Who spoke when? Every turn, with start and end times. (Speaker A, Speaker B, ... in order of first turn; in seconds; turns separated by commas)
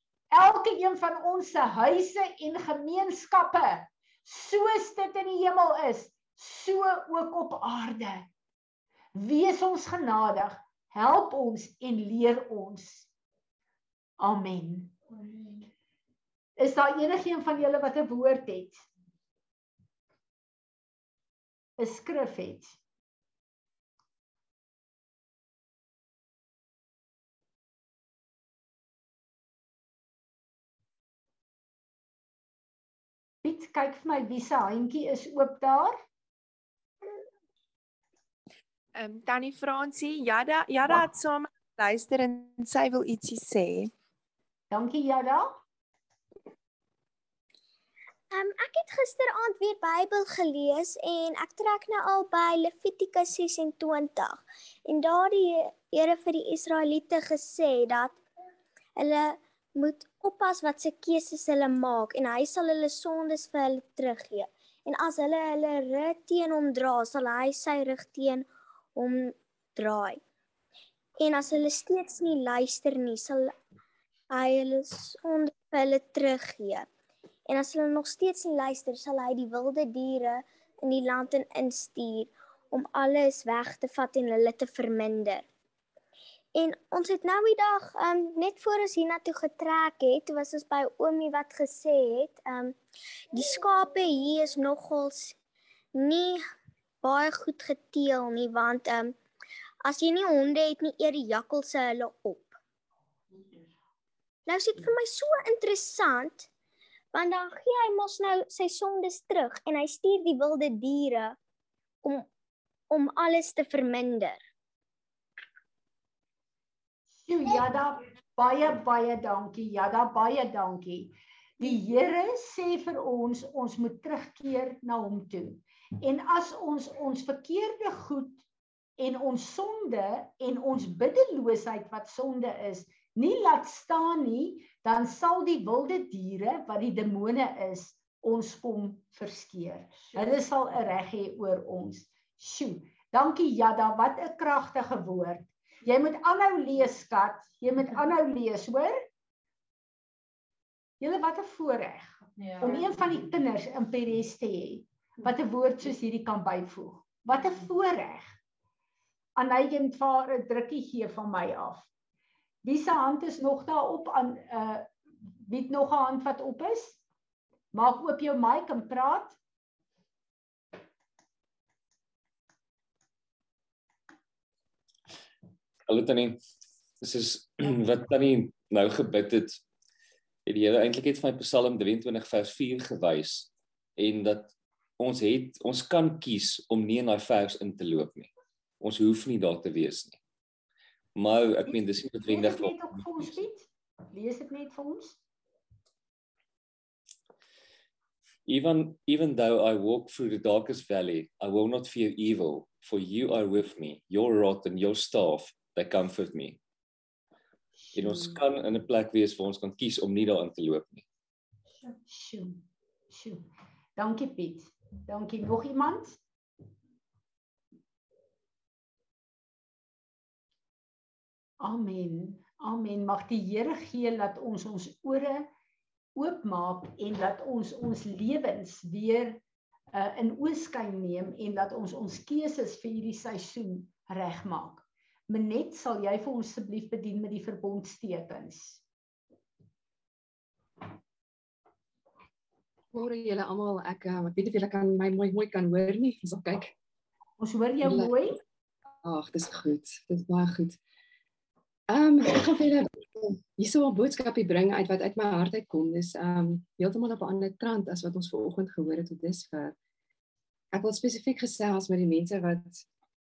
Speaker A: 0.3-8.3, Speaker A: 9.1-13.1, Speaker A: 14.2-15.0, Speaker A: 16.6-18.9, Speaker A: 21.8-22.8, Speaker A: 33.4-36.0, Speaker B: 39.0-43.9, Speaker A: 44.7-45.5, Speaker C: 48.3-58.2, Speaker C: 59.0-70.2, Speaker C: 71.2-73.5, Speaker C: 74.3-76.9, Speaker C: 77.5-85.5, Speaker C: 86.5-92.8, Speaker C: 93.3-95.4, Speaker C: 96.0-96.4, Speaker C: 97.0-99.2, Speaker C: 99.8-102.6, Speaker C: 104.5-106.5, Speaker C: 107.1-111.4, Speaker C: 112.0-112.3, Speaker C: 112.9-114.4, Speaker A: 117.3-128.4, Speaker A: 129.0-149.1, Speaker A: 151.0-158.3, Speaker A: 159.4-161.9, Speaker A: 162.6-164.9, Speaker A: 165.4-167.0, Speaker A: 167.7-169.4, Speaker D: 175.9-176.4, Speaker D: 177.0-179.6, Speaker D: 180.5-188.3, Speaker D: 188.8-190.2, Speaker D: 191.2-193.0, Speaker A: 191.7-195.2, Speaker D: 198.5-206.6, Speaker D: 207.9-211.0, Speaker A: 212.1-216.2, Speaker A: 221.6-225.5, Speaker A: 226.2-229.4, Speaker A: 229.9-238.8, Speaker E: 242.9-246.7, Speaker A: 247.4-248.4, Speaker E: 247.9-248.2, Speaker E: 249.0-250.8, Speaker E: 251.9-259.8, Speaker E: 260.7-262.9